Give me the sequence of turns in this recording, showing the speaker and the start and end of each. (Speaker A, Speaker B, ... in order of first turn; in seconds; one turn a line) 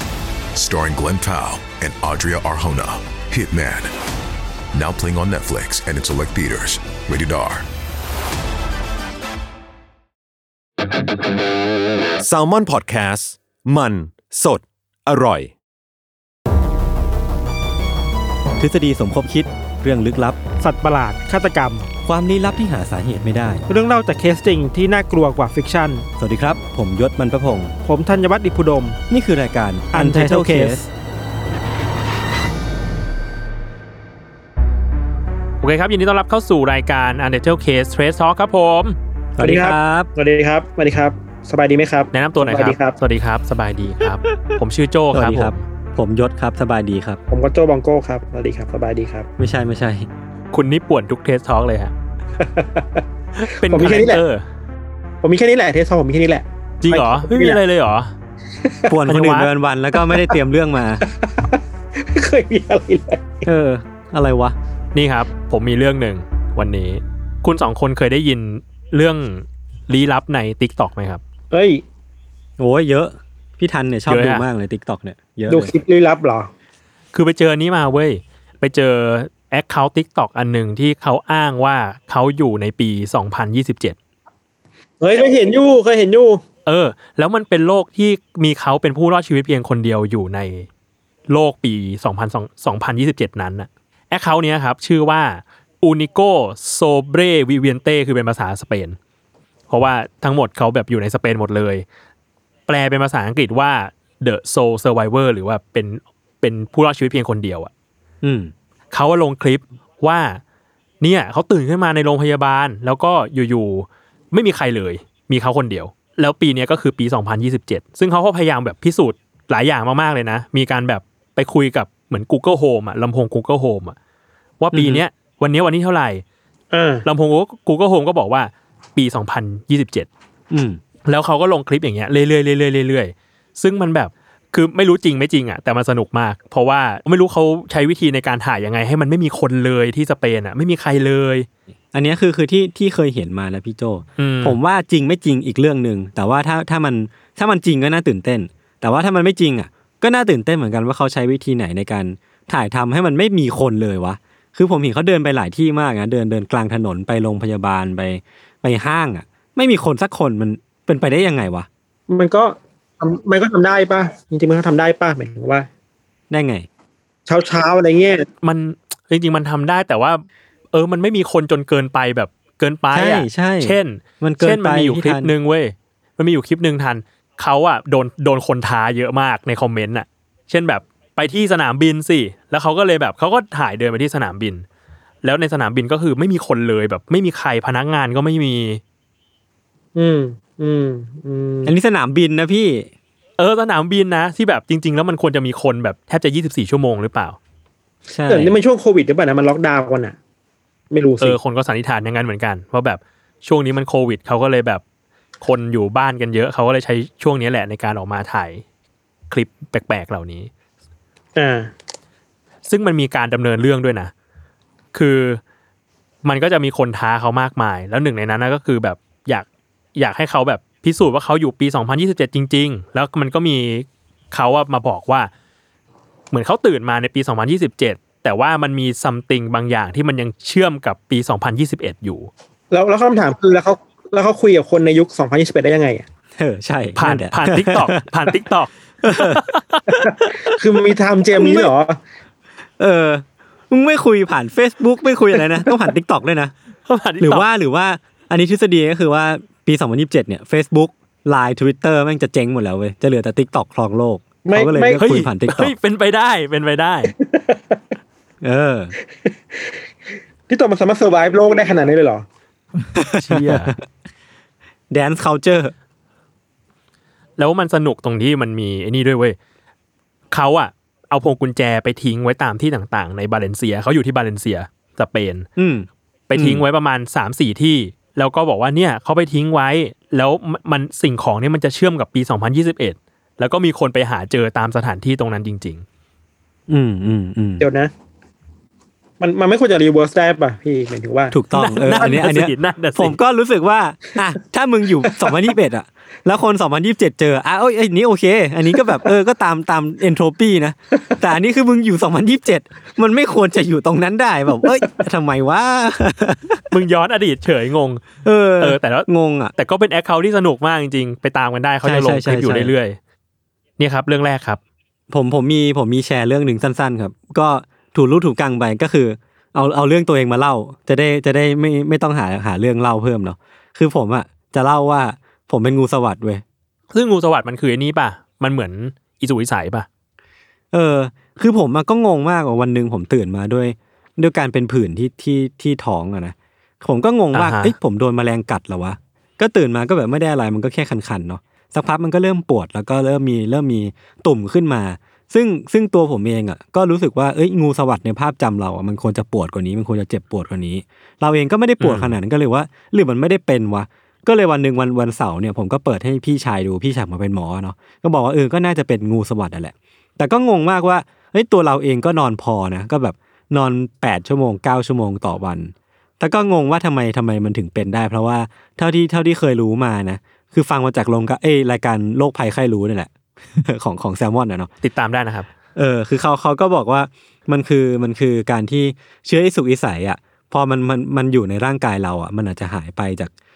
Speaker A: 0.5-3.9
Speaker A: 4.7-7.7
Speaker B: 12.2-15.5
Speaker C: 18.6-20.4
Speaker D: 20.6-21.9
Speaker C: 22.0-23.6
Speaker D: 23.7-26.1
Speaker C: 26.2-27.8
Speaker D: 27.8-29.0
Speaker C: 29.1-30.9
Speaker D: 29.9-30.8
Speaker E: 35.6-39.0
Speaker C: 39.4-40.1
Speaker D: 39.4-43.0
Speaker E: 42.1-45.6
Speaker C: 44.3-44.5
Speaker C: 45.1-47.2
Speaker D: 47.3-49.3
Speaker C: 49.4-50.1
Speaker E: 50.5-51.9
Speaker D: 52.4-53.0
Speaker E: 53.4-54.5
Speaker D: 53.6-54.2
Speaker D: 55.2-57.6
Speaker E: 56.8-58.1
Speaker D: 58.6-59.0
Speaker C: 58.9-61.0
Speaker E: 59.1-59.5
Speaker D: 59.9-60.4
Speaker D: 61.0-63.5
Speaker C: 63.5-64.5
Speaker E: 64.9-71.2
Speaker D: 71.5-71.8
Speaker C: 72.6-75.7
Speaker E: 74.1-74.5
Speaker D: 75.5-76.5
Speaker E: 77.1-84.0
Speaker D: 85.0-86.4
Speaker E: 86.7-90.7
Speaker E: 91.3-99.0
Speaker E: 99.7-101.8
Speaker E: 102.7-107.7
Speaker C: 108.2-108.5
Speaker E: 108.9-110.4
Speaker E: 111.0-124.0
Speaker E: 124.6-126.2
Speaker C: 124.7-125.0
Speaker D: 126.7-127.0
Speaker E: 127.0-130.1
Speaker C: 130.5-130.8
Speaker E: 131.1-141.5
Speaker C: 141.9-161.7
Speaker E: 144.2-144.6
Speaker D: 162.1-165.7
Speaker C: 166.3-166.7
Speaker D: 167.3-168.3
Speaker E: 168.4-184.7
Speaker C: 172.9-175.3
Speaker E: 185.2-188.8
Speaker D: 189.9-191.7
Speaker C: 191.7-192.9
Speaker E: 193.4-197.4
Speaker C: 198.1-198.6
Speaker D: 198.3-200.2
Speaker D: 200.9-201.4
Speaker E: 201.2-204.8
Speaker E: 205.4-208.6
Speaker E: 209.3-210.5
Speaker D: 211.4-211.7
Speaker E: 212.7-214.1
Speaker E: 214.9-215.4
Speaker E: 216.2-225.3
Speaker E: 226.3-232.3
Speaker D: 232.7-236.1
Speaker C: 236.4-238.0
Speaker E: 237.0-239.9
Speaker C: 239.0-240.3
Speaker D: 240.0-242.0
Speaker C: 241.4-241.7
Speaker C: 242.8-246.5
Speaker E: 246.9-247.4
Speaker C: 247.2-255.7
Speaker D: 254.4-255.0
Speaker E: 255.0-257.1
Speaker D: 257.2-257.8
Speaker C: 258.4-258.9
Speaker D: 260.5-262.2
Speaker C: 262.9-263.8
Speaker E: 263.1-263.7
Speaker C: 264.9-265.7
Speaker E: 267.4-269.4
Speaker E: 270.3-275.5
Speaker C: 275.6-276.6
Speaker E: 276.3-285.9
Speaker C: 286.7-287.6
Speaker D: 287.6-287.9
Speaker D: 289.2-291.4
Speaker C: 291.3-306.7
Speaker E: 291.5-293.2
Speaker D: 292.0-292.3
Speaker E: 306.7-308.1
Speaker C: 308.2-309.5
Speaker E: 308.6-313.0
Speaker C: 311.8-312.7
Speaker E: 313.8-314.6
Speaker C: 315.1-326.4
Speaker E: 326.9-329.9
Speaker C: 330.7-374.7
Speaker E: 337.3-337.8
Speaker E: 351.8-352.2
Speaker E: 374.8-375.5
Speaker C: 375.8-383.3